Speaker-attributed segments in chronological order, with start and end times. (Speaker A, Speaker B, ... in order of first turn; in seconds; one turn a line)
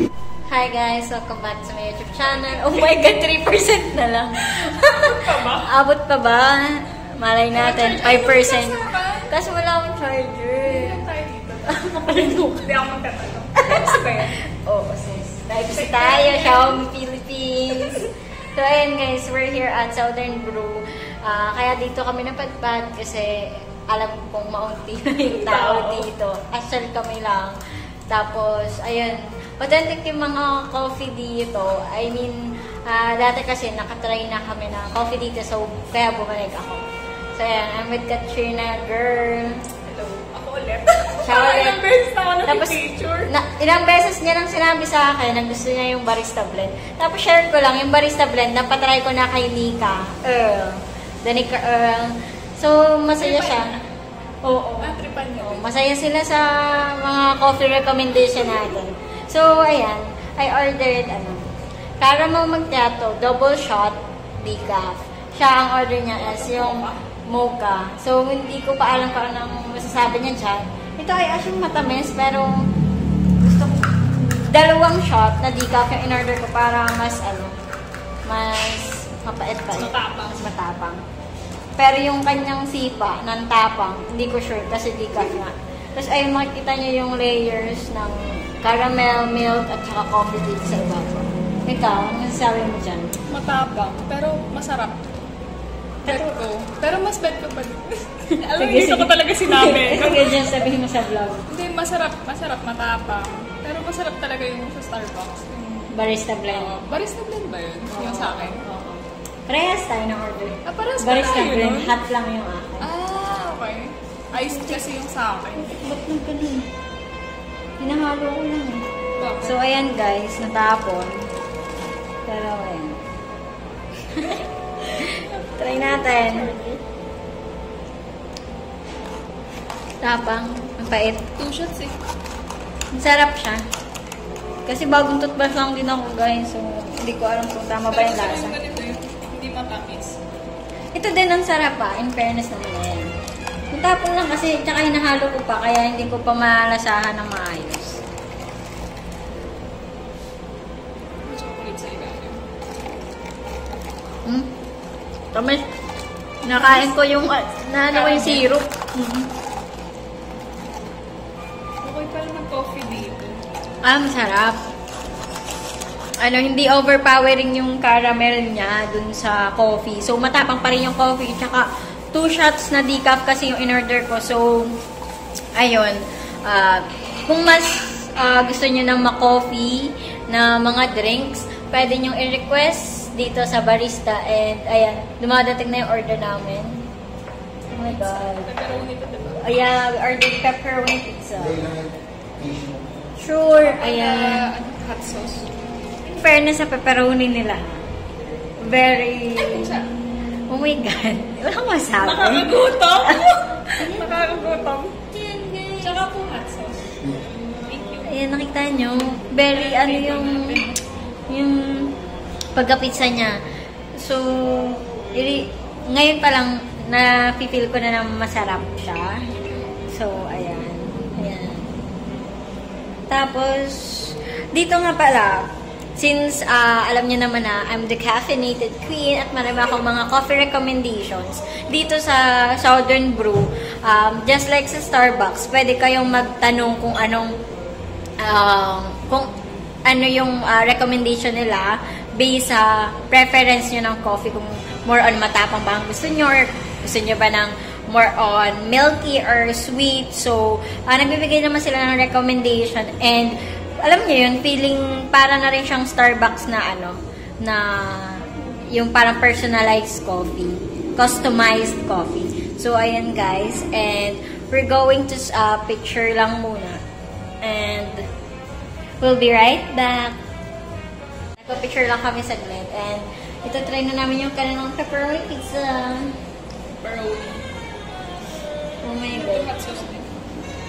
Speaker A: 0.5-11.0
Speaker B: 4.8-5.7
Speaker B: 7.5-9.3
Speaker B: 10.6-14.4
Speaker A: 11.7-12.6
Speaker A: 13.6-27.6
Speaker B: 15.7-16.8
Speaker B: 17.7-18.1
Speaker B: 25.3-26.1
Speaker A: 28.1-39.6
Speaker B: 39.9-43.3
Speaker A: 41.2-41.8
Speaker A: 42.5-53.7
Speaker B: 53.2-53.8
Speaker A: 54.4-61.5
Speaker B: 54.8-55.7
Speaker A: 62.0-72.6
Speaker B: 66.2-67.0
Speaker A: 73.4-77.5
Speaker A: 78.3-81.0
Speaker B: 79.7-80.4
Speaker A: 81.8-93.1
Speaker B: 93.3-95.2
Speaker A: 96.0-96.3
Speaker B: 96.0-100.6
Speaker A: 98.5-101.5
Speaker B: 101.5-106.0
Speaker A: 105.9-106.8
Speaker B: 106.5-108.7
Speaker A: 107.9-112.9
Speaker B: 110.7-111.9
Speaker B: 112.8-115.7
Speaker A: 114.5-114.8
Speaker A: 115.6-116.7
Speaker A: 117.8-118.9
Speaker B: 119.2-119.6
Speaker A: 119.4-121.3
Speaker A: 122.3-123.0
Speaker A: 124.1-126.5
Speaker B: 125.0-126.8
Speaker A: 130.0-131.3
Speaker B: 131.4-132.0
Speaker A: 132.9-133.6
Speaker A: 134.7-138.6
Speaker B: 137.9-140.2
Speaker A: 140.9-143.1
Speaker A: 143.7-148.0
Speaker B: 151.2-152.4
Speaker A: 155.3-155.6
Speaker A: 156.4-159.3
Speaker B: 156.6-156.9
Speaker B: 157.9-158.5
Speaker B: 161.8-163.4
Speaker A: 163.8-164.6
Speaker A: 166.2-174.8
Speaker A: 175.6-186.9
Speaker A: 187.7-188.5
Speaker B: 187.8-189.7
Speaker A: 189.4-191.8
Speaker A: 193.2-194.4
Speaker B: 193.6-195.5
Speaker A: 196.1-197.9
Speaker A: 198.6-199.7
Speaker B: 199.4-199.9
Speaker A: 200.5-203.2
Speaker B: 202.0-205.0
Speaker A: 205.1-206.0
Speaker B: 205.8-208.2
Speaker A: 208.1-210.6
Speaker B: 209.4-210.8
Speaker A: 211.3-212.0
Speaker A: 212.6-213.4
Speaker A: 214.0-219.2
Speaker A: 219.9-221.8
Speaker A: 223.1-237.3
Speaker A: 238.2-239.3
Speaker A: 239.9-266.8
Speaker A: 267.4-268.1
Speaker A: 269.0-270.2
Speaker A: 271.4-276.2
Speaker B: 276.8-277.5
Speaker A: 278.8-279.5
Speaker B: 279.1-280.1